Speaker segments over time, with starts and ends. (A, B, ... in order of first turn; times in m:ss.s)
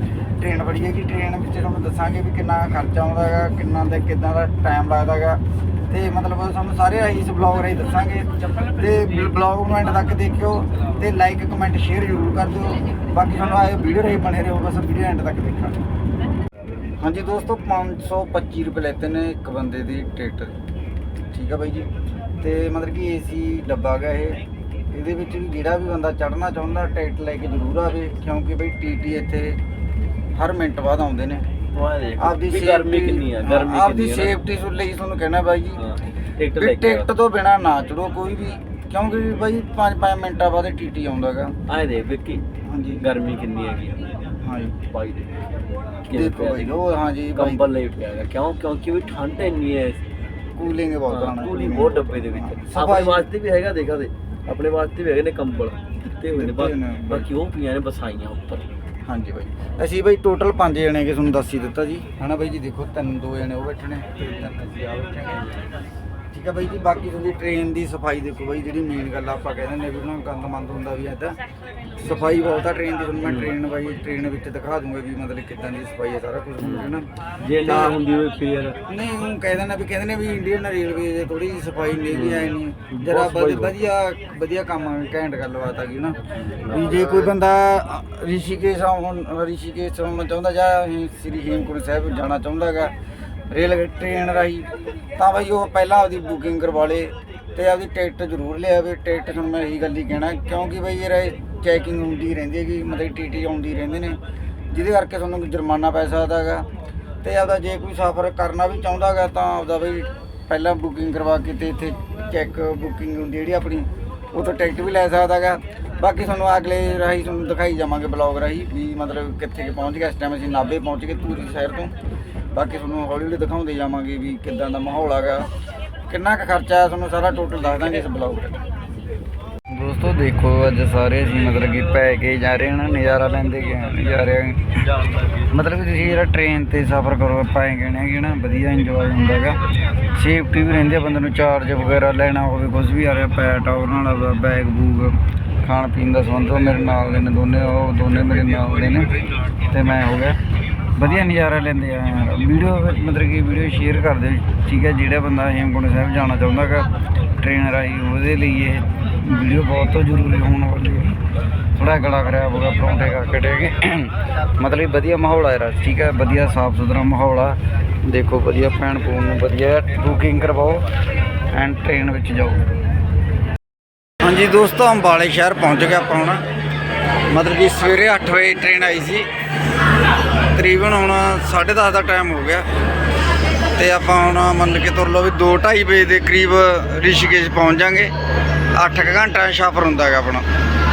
0:00.4-0:15.8 A
0:17.0-0:20.6 A
0:21.3-0:21.9 A
0:22.4-0:24.4 A
0:24.9-0:29.6 A
0:30.3-0:31.4 A
0:31.7-0:34.4 B
0:32.2-0:35.8 A
0:35.8-0:37.1 B
0:36.6-0:41.5 A
0:41.7-0:42.4 B
0:42.7-0:43.0 A
0:43.0-0:44.2 B
0:44.4-0:44.8 A
0:44.8-0:45.3 B
0:46.1-0:46.8 B
0:46.1-0:47.6 A
0:47.3-0:50.0 B
0:50.6-0:53.2 A
0:51.1-0:58.6 B
0:56.3-0:57.3 A
0:59.0-1:05.5 A
1:06.3-1:11.4 A
1:12.0-1:18.0 A
1:13.2-1:13.5 B
1:16.6-1:18.8 B
1:18.9-1:32.9 A
1:22.1-1:23.8 B
1:26.3-1:27.3 B
1:33.5-1:44.2 A
1:44.7-1:46.7 A
1:47.2-2:01.9 A
2:02.5-2:05.5 A
2:06.1-2:08.6 A
2:09.7-2:14.8 A
2:15.5-2:19.6 A
2:20.1-2:30.4 A
2:31.0-2:36.9 A
2:37.4-2:41.2 A
2:41.8-2:50.8 A
2:51.5-2:52.6 A
2:54.2-2:56.4 A
2:57.3-2:59.3 A
3:00.5-3:02.6 A
3:03.8-3:08.1 A
3:08.7-3:10.4 A